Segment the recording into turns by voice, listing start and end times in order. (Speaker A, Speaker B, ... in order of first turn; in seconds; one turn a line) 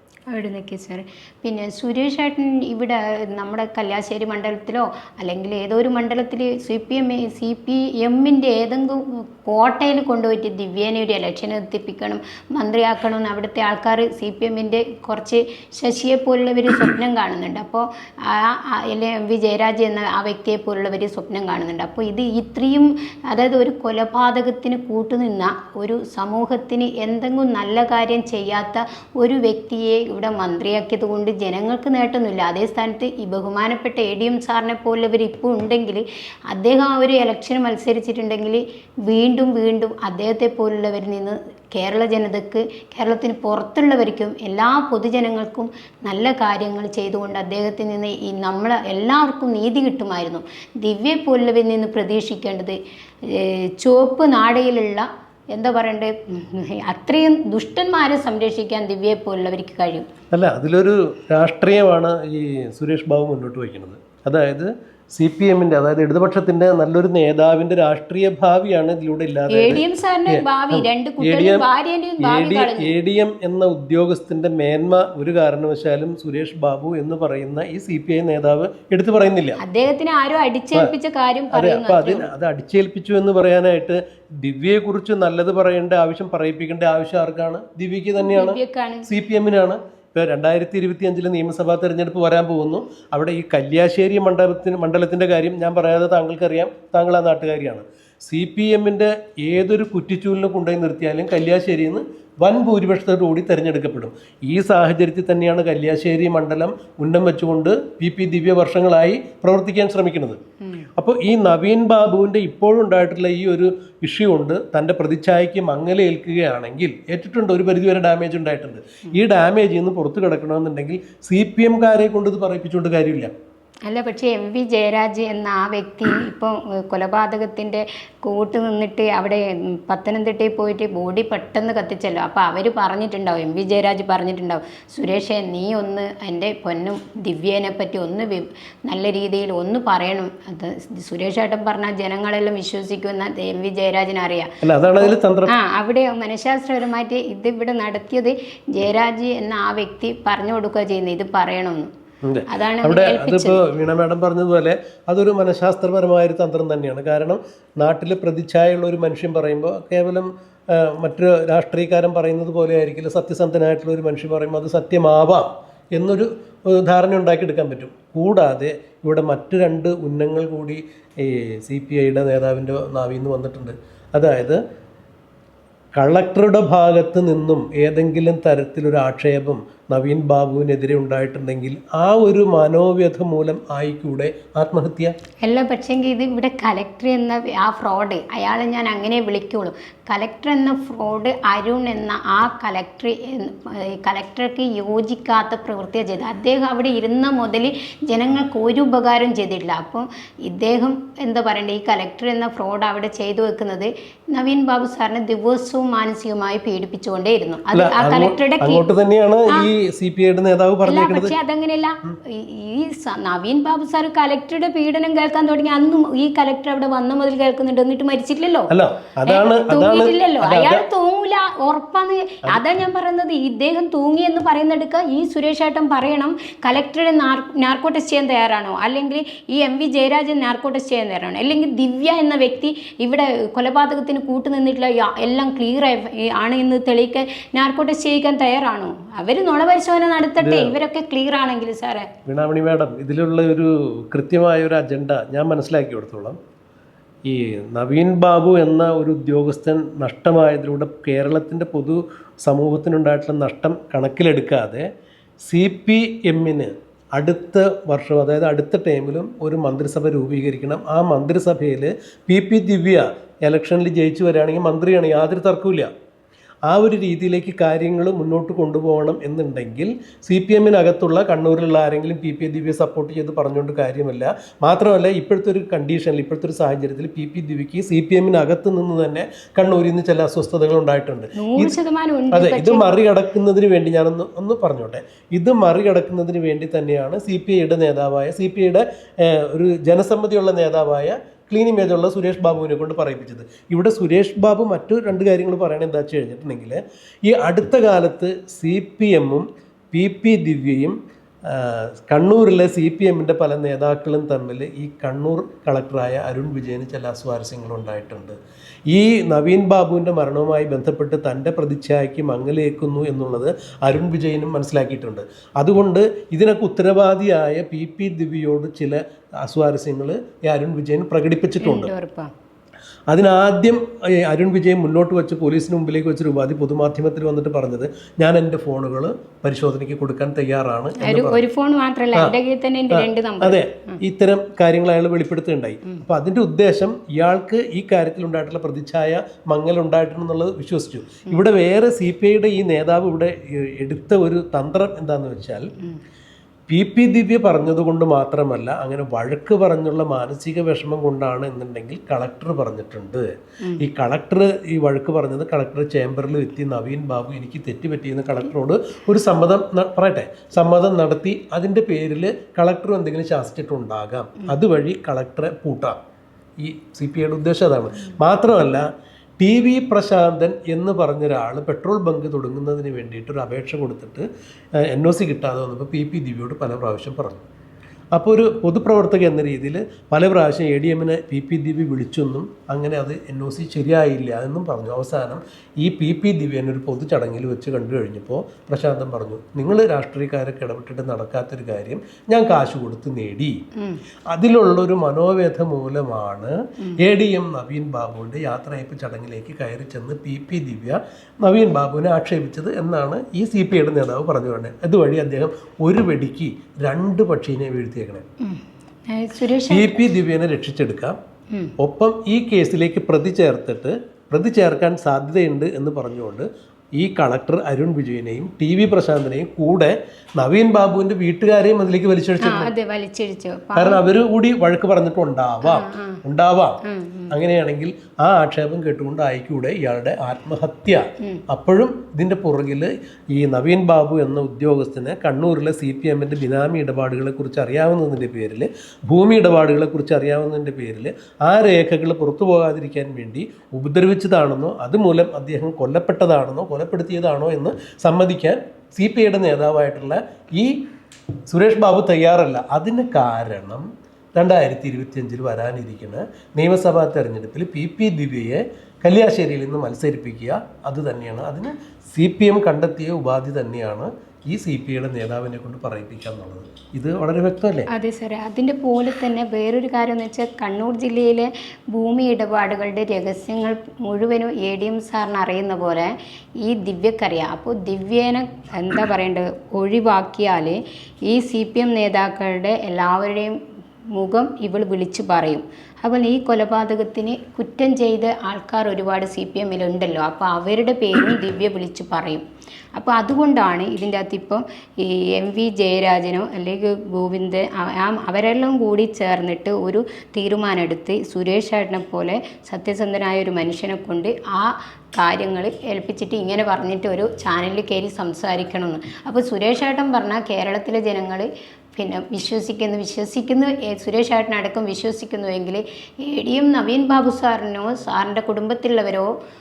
Speaker A: 0.3-60.1
Speaker B: 60.3-71.7
Speaker A: 69.5-72.9
Speaker B: 72.2-79.6
Speaker A: 79.6-82.3
Speaker B: 81.5-110.4
Speaker A: 88.2-89.1
Speaker B: 111.0-123.3
Speaker A: 123.9-151.9
Speaker B: 144.6-145.5
Speaker B: 152.2-174.6
Speaker A: 152.5-153.6
Speaker B: 176.0-185.1
Speaker A: 185.4-208.8
Speaker B: 207.7-211.3
Speaker A: 210.8-218.7
Speaker B: 218.7-220.8
Speaker A: 219.3-242.1
Speaker B: 240.4-240.8
Speaker B: 242.3-246.4
Speaker B: 247.2-254.9
Speaker B: 255.4-265.9
Speaker B: 266.7-281.7
Speaker A: 281.4-282.9
Speaker B: 282.3-308.4
Speaker B: 308.9-321.9
Speaker A: 321.6-322.3
Speaker B: 323.1-331.4
Speaker A: 331.0-334.0
Speaker B: 332.9-345.7
Speaker B: 346.7-353.3
Speaker B: 353.8-366.0
Speaker B: 366.6-368.9
Speaker B: 369.4-374.3
Speaker B: 374.8-377.4
Speaker B: 378.1-393.6
Speaker A: 393.8-394.0
Speaker B: 394.3-408.2
Speaker A: 408.4-410.0
Speaker B: 409.7-411.2
Speaker B: 411.8-422.7
Speaker A: 422.4-424.0
Speaker B: 423.8-426.8
Speaker A: 425.6-426.2
Speaker A: 426.8-427.3
Speaker B: 427.3-450.9
Speaker B: 451.5-467.9
Speaker A: 467.9-483.6
Speaker A: 484.1-492.4
Speaker A: 492.9-519.3